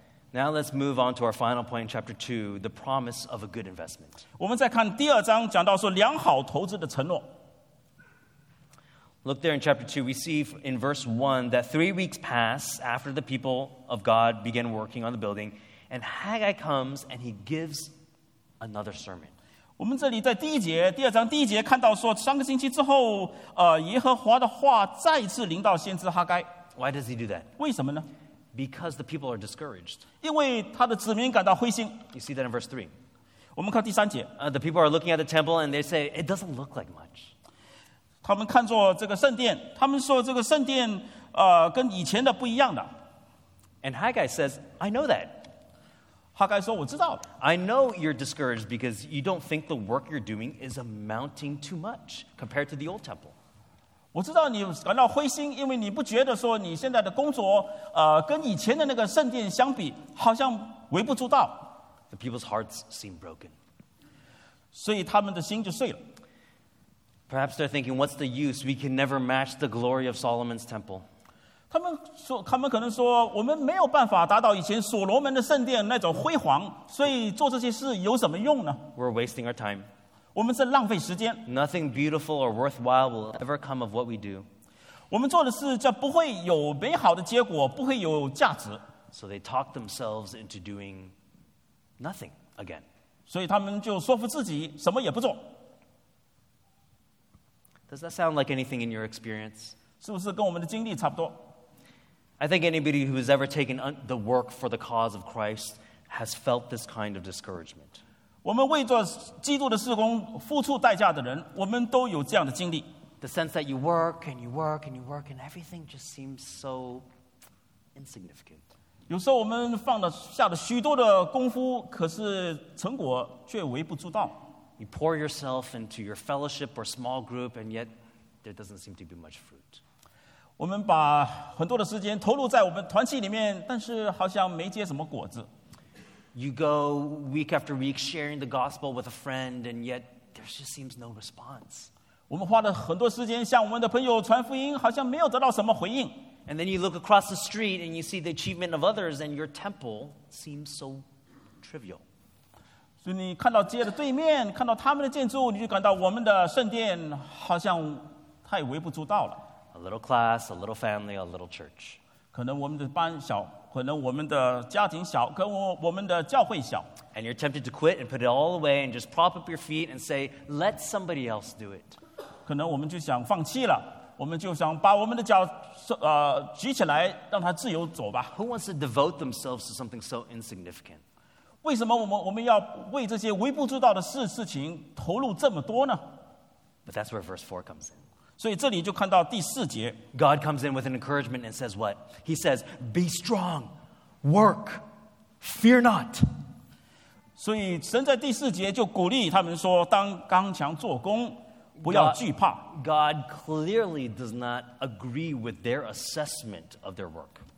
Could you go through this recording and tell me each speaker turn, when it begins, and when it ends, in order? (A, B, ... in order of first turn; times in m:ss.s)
0:00.3-0:04.2 A
0:04.4-0:07.3 B
0:09.2-0:17.9 A
0:18.6-0:19.3 A
0:19.8-0:26.5 B
0:26.8-0:27.5 A
0:27.6-0:28.1 B
0:28.5-0:30.0 A
0:30.2-0:32.0 B
0:32.1-0:32.9 A
0:33.6-0:34.3 B
0:34.4-0:37.3 A
0:38.2-0:42.9 B
0:43.8-0:45.5 A
0:46.4-0:47.2 B
0:47.4-0:53.4 A
0:54.1-1:01.7 B
1:02.1-1:03.5 A
1:04.7-1:06.0 B
1:07.3-1:11.0 A
1:11.7-1:18.9 B
1:18.9-1:19.9 A
1:20.4-1:21.4 B
1:21.4-1:24.5 A
1:25.1-1:28.8 B
1:29.1-1:31.1 A
1:32.0-1:32.8 A
1:33.3-1:35.5 B
1:37.9-1:39.7 A
1:40.0-1:41.4 B
1:42.4-1:48.0 A
1:48.4-1:52.9 B
1:53.2-1:57.1 A
1:57.9-1:58.6 A
1:59.1-2:04.4 B
2:04.8-2:07.9 A
2:08.4-2:09.8 A
2:10.6-2:15.5 B
2:16.3-2:21.9 A
2:22.3-2:26.2 B
2:26.5-2:31.0 A
2:31.6-2:32.0 A
2:33.0-2:39.4 B
2:39.7-2:42.0 A
2:42.3-2:46.9 B
2:47.1-2:52.0 A
2:52.4-2:58.3 B
2:58.3-3:01.0 A
3:01.6-3:06.0 B
3:06.9-3:08.0 A
3:08.4-3:10.0 B
3:10.1-3:13.7 A
3:14.2-3:14.8 A
3:15.4-3:16.2 A
3:17.4-3:22.6 B
3:21.8-3:27.4 A